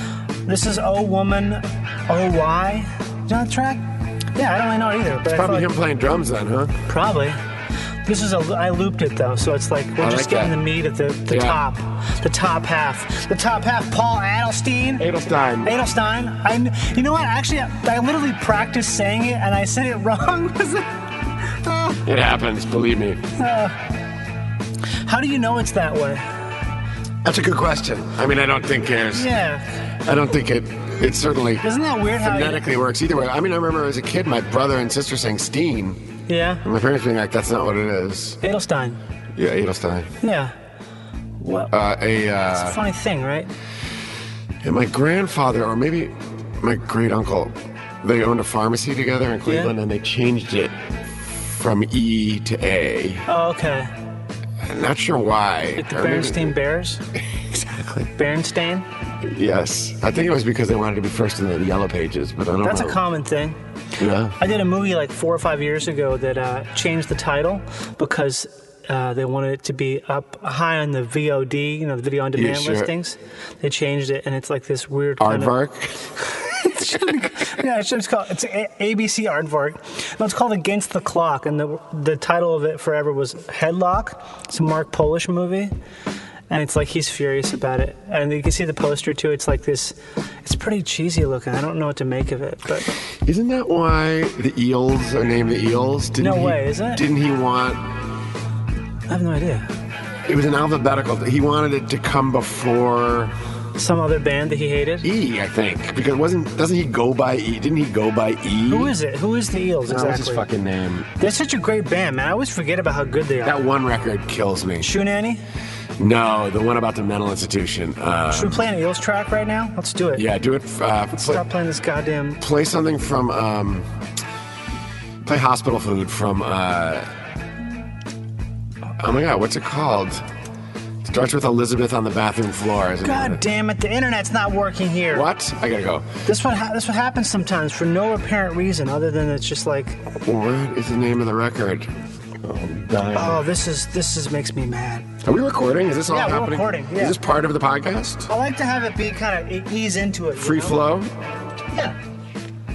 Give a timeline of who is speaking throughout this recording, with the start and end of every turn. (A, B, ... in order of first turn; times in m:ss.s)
0:00.4-0:05.7 A
0:05.3-0:06.8 B
0:06.9-0:07.4 A
0:08.0-0:15.0 A
0:10.0-0:10.6 B
0:11.3-0:11.6 B
0:15.0-0:15.8 B
0:15.6-0:22.0 A
0:22.0-0:23.2 B
0:23.4-0:23.8 A
0:25.0-0:26.3 A
0:27.2-0:29.3 B
0:29.1-0:29.6 A
0:30.0-0:31.6 B
0:31.6-0:32.8 A
0:32.2-0:36.1 B
0:36.3-0:36.6 A
0:36.6-0:38.4 B
0:38.4-0:39.0 A
0:39.4-0:40.1 B
0:40.2-0:40.5 A
0:41.4-0:41.7 A
0:41.7-0:42.8 B
0:42.5-0:43.5 A
0:44.6-0:53.2 B
0:49.5-0:49.7 A
0:53.3-0:53.9 A
0:54.6-0:56.5 B
0:55.8-0:57.0 A
0:57.3-0:58.1 B
0:58.2-0:58.9 A
0:59.2-1:03.0 B
1:02.6-1:03.6 A
1:04.0-1:04.4 B
1:04.4-1:15.5 A
1:12.3-1:12.9 B
1:15.2-1:16.0 B
1:16.3-1:25.7 A
1:26.5-1:32.9 A
1:33.2-1:37.8 B
1:36.2-1:37.0 A
1:39.1-1:39.7 A
1:40.2-1:43.3 B
1:43.8-1:45.1 A
1:45.0-1:48.9 B
1:48.7-1:50.4 A
1:49.9-1:51.1 B
1:51.2-1:53.6 A
1:53.4-1:54.9 B
1:54.8-1:55.4 A
1:56.0-1:58.6 B
1:58.3-2:00.2 A
2:00.2-2:01.4 B
2:01.2-2:02.4 A
2:02.4-2:03.9 B
2:05.2-2:07.1 B
2:09.0-2:10.2 B
2:11.0-2:13.4 B
2:13.0-2:15.3 A
2:15.1-2:16.1 B
2:16.2-2:20.0 A
2:20.2-2:21.9 B
2:22.4-2:23.4 B
2:23.1-2:25.1 A
2:25.2-2:28.3 B
2:26.1-2:27.2 A
2:28.3-2:30.9 A
2:30.4-2:31.1 B
2:31.7-2:32.0 A